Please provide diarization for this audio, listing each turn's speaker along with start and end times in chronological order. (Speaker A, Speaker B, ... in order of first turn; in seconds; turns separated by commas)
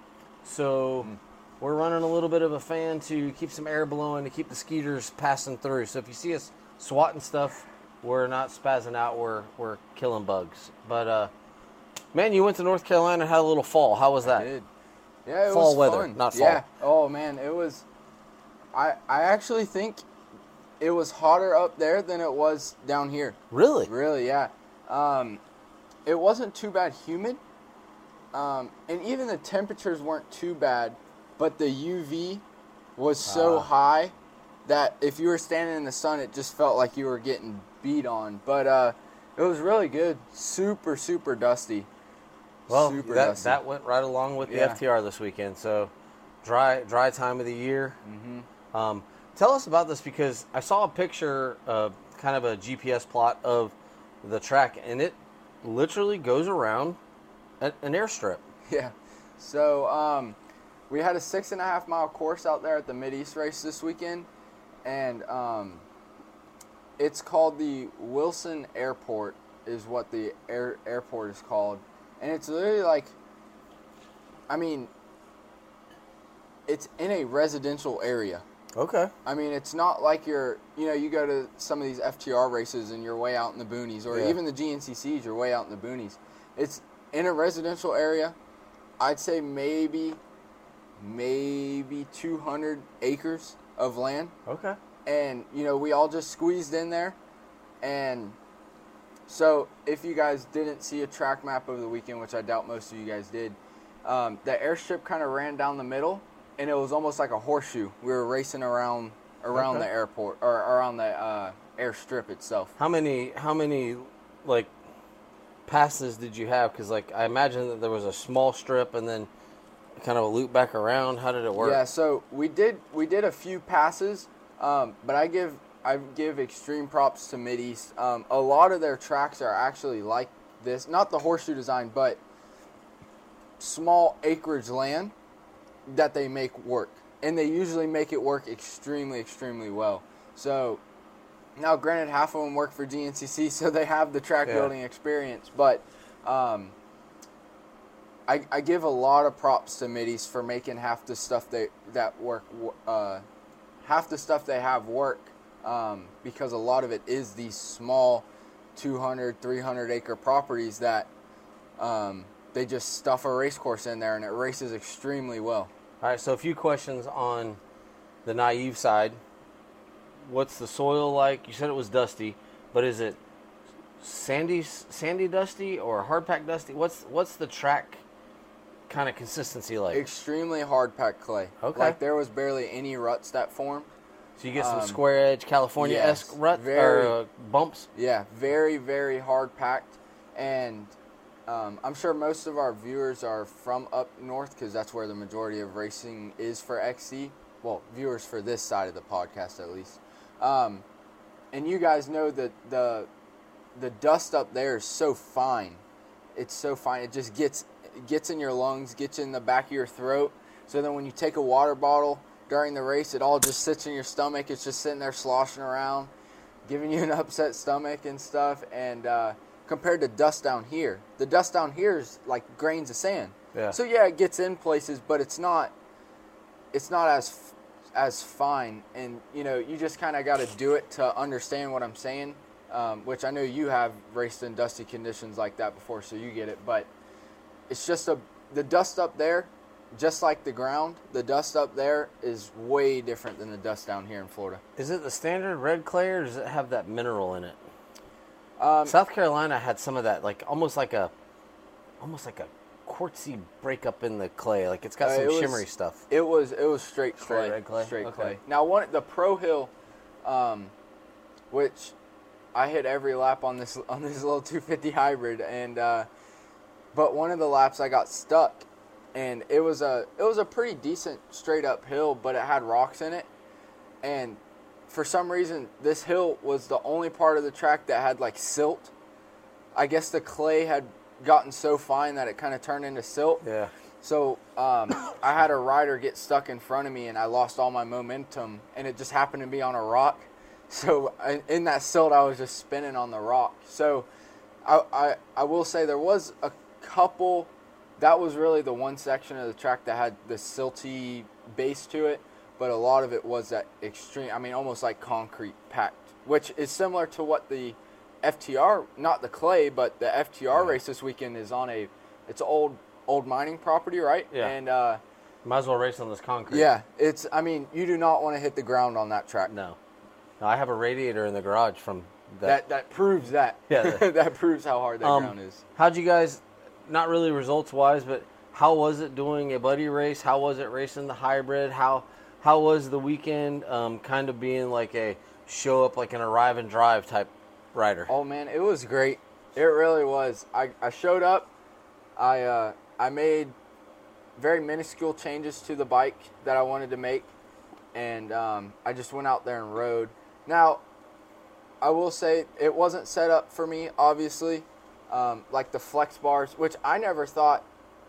Speaker A: 0.4-11.3, Speaker A: 12.1-14.5, Speaker B: 14.2-14.7, Speaker B: 15.2-17.8, Speaker A: 15.5-16.6, Speaker B: 18.7-20.1, Speaker B: 20.8-25.4, Speaker A: 23.5-23.9, Speaker B: 26.1-27.4, Speaker B: 28.3-32.4, Speaker B: 33.0-34.1, Speaker A: 33.2-33.7, Speaker B: 34.6-41.9, Speaker B: 42.7-43.6, Speaker A: 42.7-45.9, Speaker B: 44.4-44.8, Speaker A: 46.4-48.0, Speaker B: 48.0-48.5, Speaker A: 48.7-57.0, Speaker A: 57.6-58.4, Speaker B: 58.7-60.4, Speaker B: 60.9-64.3, Speaker B: 64.8-65.8, Speaker B: 67.0-73.2, Speaker B: 74.5-74.9, Speaker B: 76.7-78.4, Speaker A: 78.8-79.1, Speaker B: 79.2-88.3, Speaker A: 84.1-84.3, Speaker B: 89.0-90.2, Speaker B: 91.0-94.3, Speaker A: 94.5-94.8, Speaker B: 95.0-97.2, Speaker B: 97.8-98.4, Speaker B: 99.3-112.7, Speaker A: 109.5-109.8, Speaker A: 112.8-114.7, Speaker A: 115.7-119.3, Speaker A: 120.0-121.8, Speaker B: 121.5-132.2, Speaker B: 133.6-135.1, Speaker B: 135.9-140.8, Speaker B: 141.6-146.7, Speaker A: 144.4-144.7, Speaker B: 148.3-153.2, Speaker B: 153.8-161.1, Speaker B: 161.8-165.7, Speaker A: 166.0-167.6, Speaker A: 168.2-169.2, Speaker A: 170.2-173.2, Speaker A: 174.0-178.0, Speaker A: 178.9-180.0, Speaker B: 179.9-183.9, Speaker A: 181.6-182.0, Speaker A: 184.4-187.9, Speaker B: 184.5-185.0, Speaker B: 185.8-187.2, Speaker B: 187.9-190.9, Speaker B: 191.5-200.8, Speaker B: 201.5-203.1, Speaker B: 203.7-205.8, Speaker B: 206.3-216.1, Speaker B: 216.7-225.7, Speaker B: 226.7-236.9, Speaker B: 237.7-244.6, Speaker A: 244.8-247.6, Speaker B: 248.6-248.9, Speaker A: 248.8-251.1, Speaker A: 252.0-256.0, Speaker B: 255.0-259.7, Speaker A: 257.2-258.4, Speaker B: 260.2-260.7, Speaker B: 261.5-261.9, Speaker B: 262.5-266.1, Speaker B: 266.9-273.3, Speaker B: 274.0-278.9, Speaker B: 279.7-283.4, Speaker A: 283.4-283.7, Speaker B: 284.0-294.1, Speaker B: 294.6-315.0, Speaker A: 310.5-310.8, Speaker A: 315.4-316.7, Speaker B: 316.5-319.5, Speaker A: 319.5-319.8, Speaker A: 320.4-322.6, Speaker B: 322.4-325.6, Speaker A: 323.7-324.0, Speaker A: 325.0-338.1, Speaker B: 338.1-341.5, Speaker B: 342.2-343.5, Speaker B: 344.4-347.3, Speaker B: 347.9-350.8, Speaker B: 351.8-357.6